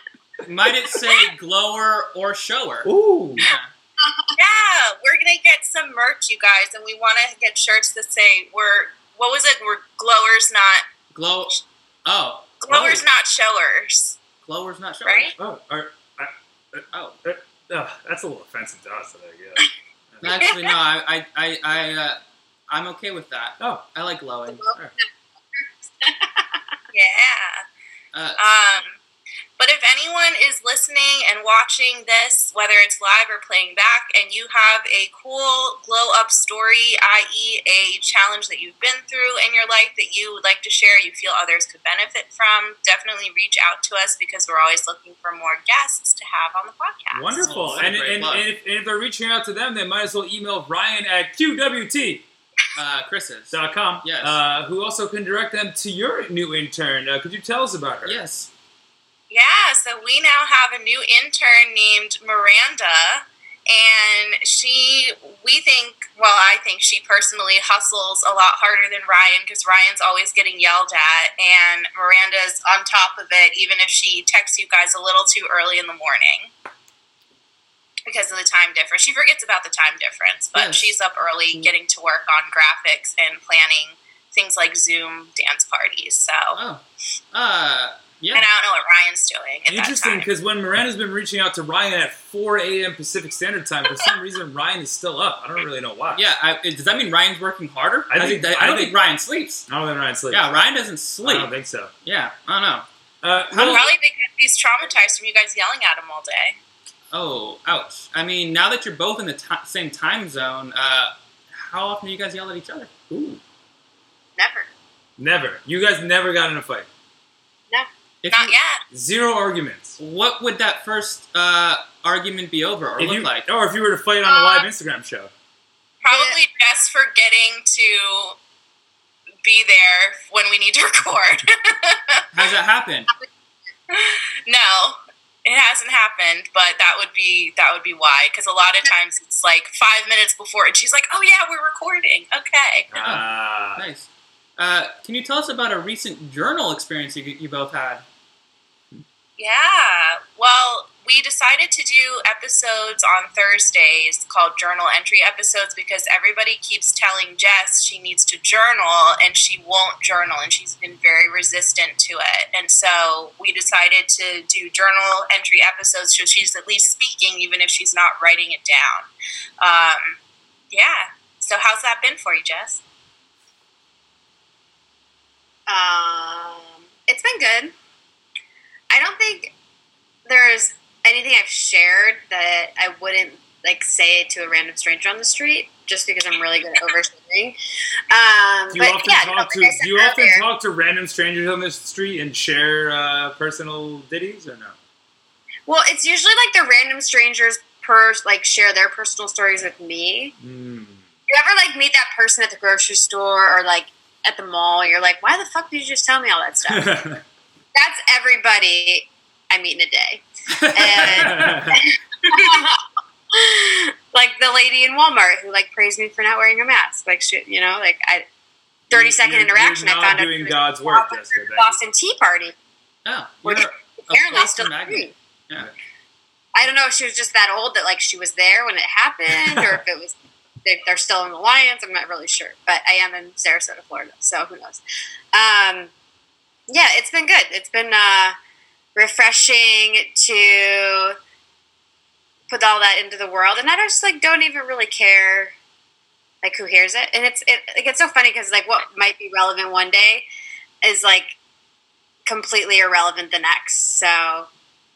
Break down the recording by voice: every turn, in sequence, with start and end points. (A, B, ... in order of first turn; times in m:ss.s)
0:00.4-0:03.7 A
0:02.8-0:03.4 B
0:04.0-0:04.3 C
0:04.4-0:10.8 D
0:11.1-0:13.0 A
0:12.6-0:14.2 D
0:14.4-0:15.4 A
0:15.0-0:15.3 D
0:15.4-0:20.5 B
0:16.9-0:17.2 A
0:20.2-0:24.8 A
0:24.4-0:26.6 C
0:26.9-0:27.6 D
0:28.1-0:28.4 A
0:28.4-0:29.0 D
0:29.6-0:47.5 D
0:47.1-0:52.2 B
0:47.4-0:48.4 A
0:52.8-0:54.4 A
0:53.5-0:58.2 B
0:58.0-0:58.5 A
0:59.3-1:16.5 D
1:18.0-1:26.6 D
1:20.5-1:21.0 A
1:26.6-1:28.5 A
1:28.3-1:30.3 D
1:29.7-1:36.2 B
1:36.1-1:39.7 A
1:38.1-1:39.0 B
1:39.7-1:40.4 B
1:40.3-1:41.5 A
1:41.2-1:41.9 B
1:42.0-1:42.9 A
1:43.2-1:43.9 B
1:43.5-1:43.9 A
1:43.7-1:46.6 D
1:47.1-1:52.9 A
1:53.1-1:53.4 B
1:54.4-1:54.7 C
1:55.2-1:56.9 B
1:58.2-1:58.5 A
1:58.3-1:58.8 D
1:58.9-2:00.0 B
2:00.0-2:03.4 A
2:03.0-2:05.3 B
2:04.2-2:04.7 C
2:06.0-2:08.4 D
2:06.0-2:06.4 C
2:09.4-2:12.2 D
2:12.3-2:13.1 A
2:13.9-2:22.9 D
2:22.9-2:23.8 B
2:22.9-2:28.0 A
2:29.4-2:49.1 D
2:49.6-2:50.2 D
2:50.7-2:52.8 D
2:55.7-2:57.7 C
2:58.9-2:59.5 C
3:00.2-3:07.6 C
3:08.1-3:10.4 C
3:08.7-3:14.8 B
3:15.6-3:20.3 C
3:20.4-3:21.0 B
3:21.3-3:27.0 C
3:26.7-3:27.2 B
3:27.7-3:38.2 C
3:30.5-3:31.4 A
3:31.0-3:31.8 B
3:38.9-3:41.8 B
3:38.9-3:42.5 C
3:43.0-3:45.7 A
3:43.4-3:45.1 C
3:46.5-3:54.8 C
3:49.4-3:49.8 B
3:55.3-3:55.9 C
3:56.7-3:58.4 C
3:58.9-4:01.2 C
4:02.5-4:05.5 C
4:06.4-4:10.2 C
4:10.8-4:11.3 C
4:12.2-4:14.5 C